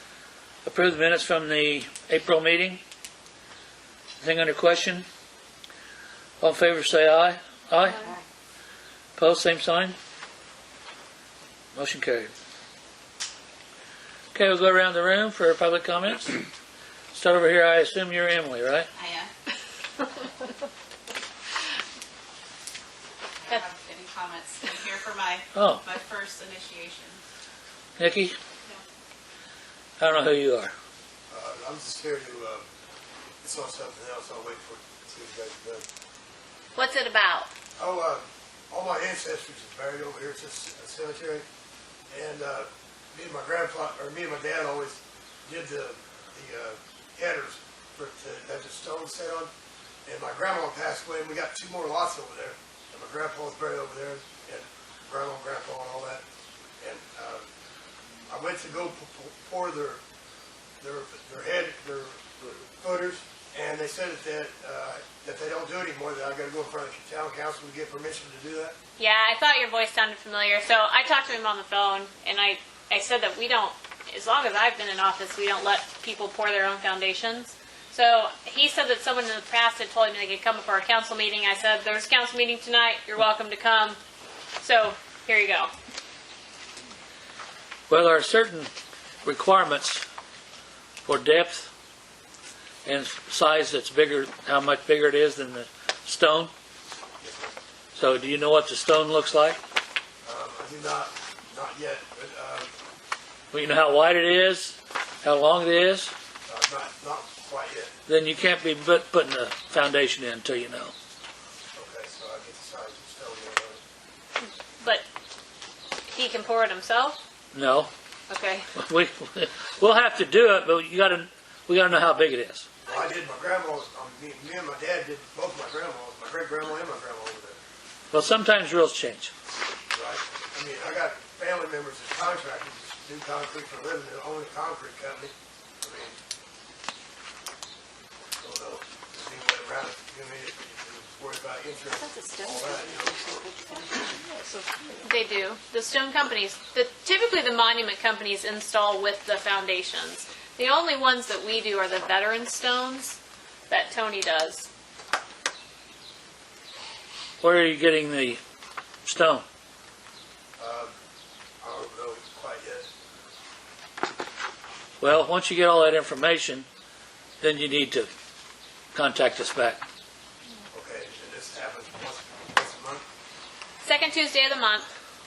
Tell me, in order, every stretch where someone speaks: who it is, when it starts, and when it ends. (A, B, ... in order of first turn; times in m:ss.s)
0:00.6-0:02.8 A
0:04.2-0:05.1 A
0:06.4-0:08.1 A
0:09.2-0:10.0 A
0:11.8-0:12.3 A
0:14.3-0:16.4 A
0:17.1-0:18.9 A
0:19.0-0:19.3 B
0:23.4-0:27.2 B
0:25.5-0:25.8 A
0:28.0-0:28.4 A
0:30.0-0:30.7 A
0:31.3-0:32.7 C
0:33.4-0:35.8 C
0:36.8-0:37.5 D
0:37.8-0:41.5 C
0:42.1-0:49.5 C
0:50.0-0:56.2 C
0:56.8-0:57.5 C
0:58.3-1:00.0 C
1:00.8-1:08.8 C
1:09.0-1:24.0 D
1:24.6-1:25.7 D
1:27.9-1:28.7 A
1:29.2-1:30.0 A
1:31.0-1:31.7 A
1:32.8-1:36.5 A
1:37.2-1:37.5 C
1:38.0-1:39.6 A
1:40.2-1:42.7 C
1:43.5-1:46.1 A
1:46.5-1:47.9 C
1:48.1-1:50.9 A
1:51.7-1:53.8 C
1:54.4-1:55.0 D
1:56.1-1:57.2 D
1:57.5-1:57.9 A
1:58.3-1:58.7 D
1:58.8-2:02.7 A
2:02.9-2:07.6 C
2:08.1-2:09.3 A
2:09.9-2:16.2 C
2:18.4-2:23.2 C
2:21.9-2:24.4 B
2:25.0-2:33.2 D
2:33.7-2:34.7 D
2:37.4-2:38.4 A
2:39.0-2:39.4 A
2:40.6-2:40.9 C
2:41.6-2:42.9 C
2:45.0-2:46.7 A
2:47.4-2:48.1 A
2:48.9-2:49.8 A
2:50.7-2:53.0 C
2:53.8-2:54.9 D